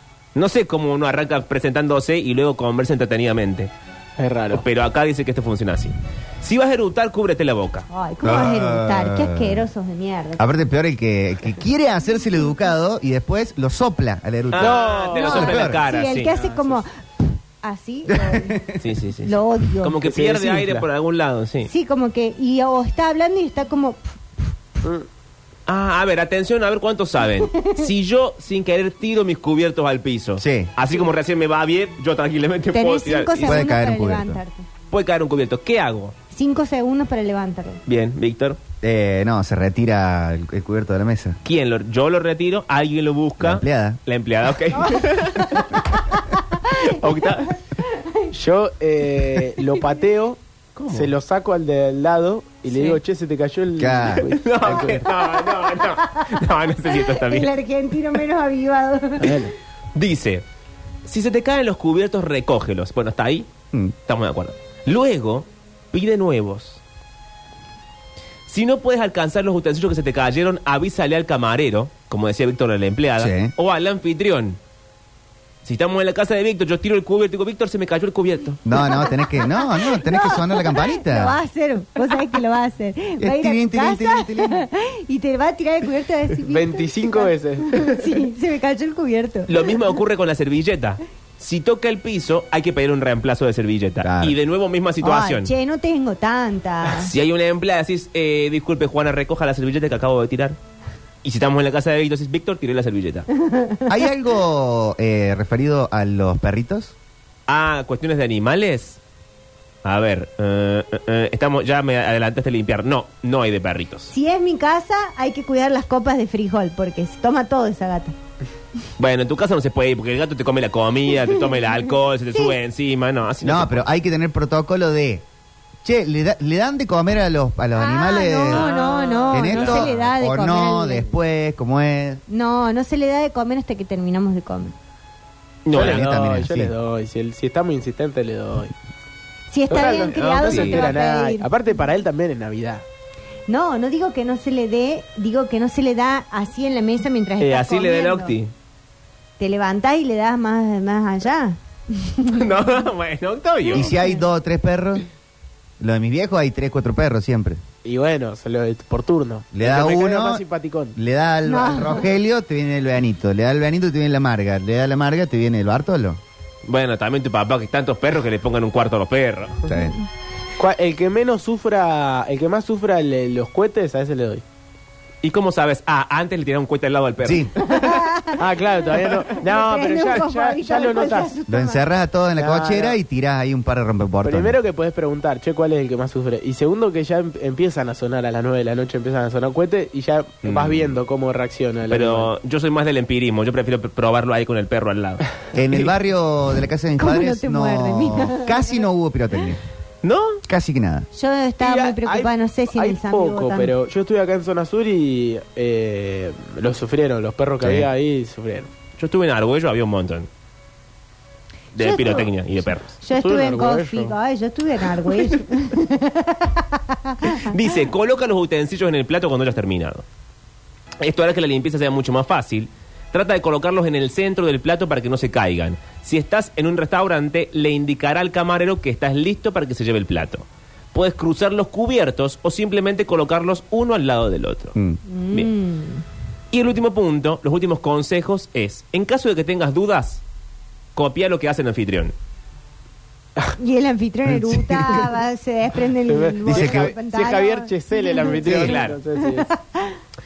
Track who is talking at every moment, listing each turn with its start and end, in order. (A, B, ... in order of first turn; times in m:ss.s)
0:00.3-0:03.7 A
0:04.2-0:04.6 B
0:04.5-0:07.8 A
0:07.9-0:10.4 C
0:08.2-0:09.6 D
0:10.4-0:15.9 D
0:14.5-0:16.3 A
0:14.6-0:15.4 B
0:15.1-0:18.6 C
0:16.2-0:16.8 B
0:18.1-0:18.8 D
0:18.8-0:21.7 A
0:19.2-0:20.0 C
0:20.0-0:20.8 B
0:21.7-0:24.5 C
0:25.7-0:33.6 A
0:27.5-0:27.8 C
0:30.4-0:30.7 D
0:32.7-0:34.6 C
0:33.4-0:34.4 D
0:34.9-0:36.1 A
0:36.3-0:37.8 C
0:37.8-0:38.6 A
0:38.8-0:41.4 D
0:41.4-0:45.8 A
0:43.4-0:44.0 D
0:44.7-0:48.3 C
0:46.7-0:47.6 A
0:48.3-0:55.1 B
0:50.8-0:51.1 A
0:52.7-0:53.0 A
0:53.8-0:54.2 D
0:54.2-0:57.5 A
0:55.4-0:59.5 C
0:59.2-0:59.5 B
0:59.9-1:00.4 A
1:01.0-1:03.5 A
1:04.0-1:06.8 A
1:08.5-1:14.6 A
1:13.2-1:13.5 D
1:15.6-1:18.6 A
1:18.6-1:21.4 D
1:18.7-1:29.8 C
1:23.2-1:24.6 D
1:26.4-1:27.8 B
1:29.5-1:35.5 A
1:34.0-1:34.4 D
1:35.0-1:37.1 C
1:36.8-1:40.6 A
1:41.2-1:43.3 A
1:43.4-1:43.9 C
1:43.9-1:46.9 D
1:47.5-1:49.0 A
1:49.8-1:54.1 A
1:54.1-1:58.1 C
1:59.0-2:03.9 A
2:03.4-2:05.2 D
2:05.8-2:08.7 D
2:07.7-2:11.1 C
2:08.5-2:09.9 A
2:09.3-2:12.2 D
2:12.3-2:14.7 C
2:15.6-2:16.1 A
2:15.7-2:16.7 D
2:15.7-2:18.7 B
2:19.5-2:21.5 C
2:19.7-2:22.8 B
2:20.1-2:21.0 A
2:23.5-2:28.3 C
2:27.4-2:28.5 A
2:29.4-2:32.6 C
2:32.3-2:33.9 A
2:33.7-2:35.0 D
2:35.8-2:37.6 D
2:37.8-2:41.0 B
2:39.5-2:40.4 D
2:39.6-2:39.9 A
2:41.0-2:46.2 D
2:41.4-2:42.1 C
2:46.6-2:49.7 A
2:49.6-2:50.0 D
2:50.6-2:54.4 B
2:55.2-2:58.1 A
2:57.2-2:57.5 D
2:57.6-3:01.8 C
2:58.4-3:01.3 B
3:01.5-3:04.6 D
3:02.4-3:03.0 B
3:04.2-3:12.3 B
3:10.4-3:10.9 A
3:11.9-3:15.9 A
3:15.5-3:19.6 D
3:17.0-3:18.7 C
3:20.0-3:20.4 A
3:20.5-3:21.1 D
3:21.1-3:23.7 C
3:21.6-3:28.7 B
3:27.6-3:27.9 D
3:29.0-3:30.3 A
3:31.7-3:32.9 A
3:31.8-3:32.3 C
3:33.0-3:37.5 C
3:33.1-3:34.1 B
3:37.2-3:40.0 A
3:41.0-3:54.8 A
3:55.1-3:56.0 C
3:56.5-4:00.2 A
4:00.9-4:02.1 A
4:03.6-4:10.0 C
4:04.4-4:04.8 D
4:06.0-4:09.5 B
4:06.5-4:06.9 D
4:08.4-4:08.7 D
4:08.4-4:09.0 A